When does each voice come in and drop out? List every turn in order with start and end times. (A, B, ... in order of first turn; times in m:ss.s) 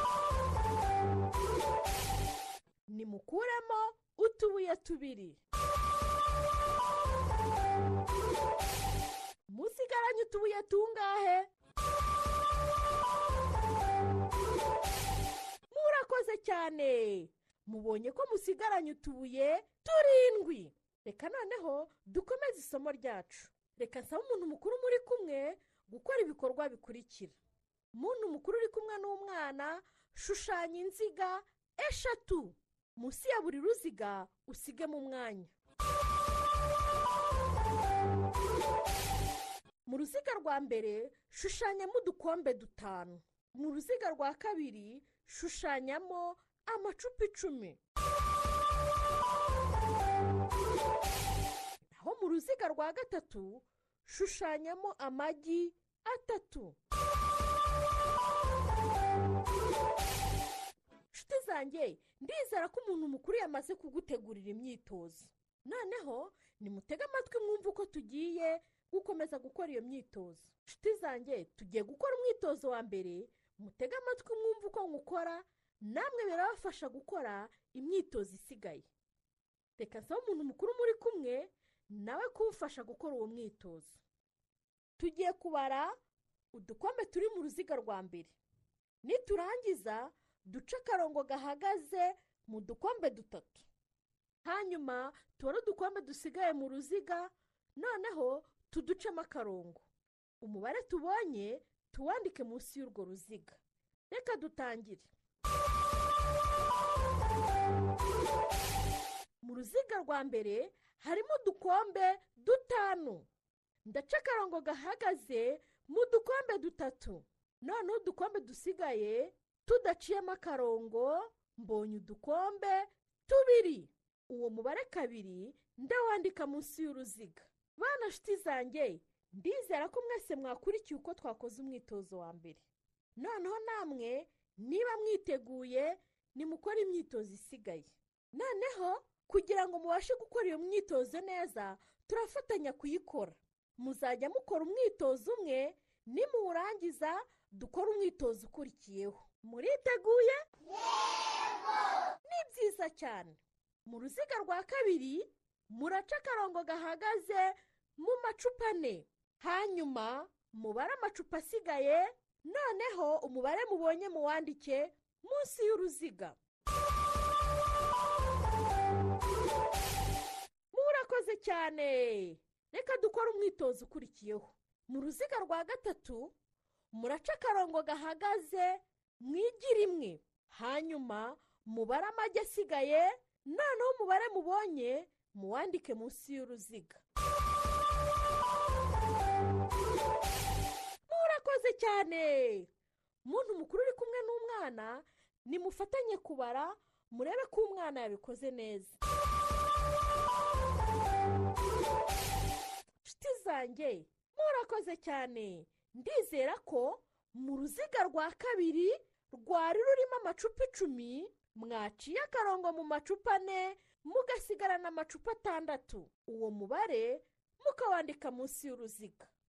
0:02.9-0:05.4 A
0:09.5-0:11.5 A
0:15.7-0:27.4 A
0:27.9-0:35.5 A
0:39.9-0:47.8 A
0:51.9-0:56.8 A
1:01.1-1:18.9 A
1:19.8-1:24.0 A
1:25.0-1:25.9 A
1:26.5-1:28.4 A
1:29.0-1:33.6 A
1:34.4-1:39.8 A
1:40.4-1:43.6 A
1:44.1-1:45.1 A
1:49.4-1:53.2 A
1:53.8-2:12.6 A
2:13.2-2:30.4 A
2:32.2-2:46.4 A
2:50.7-2:56.3 A
2:56.9-3:07.0 A
3:11.1-3:12.7 A
3:13.2-3:19.0 A
3:23.0-3:39.3 A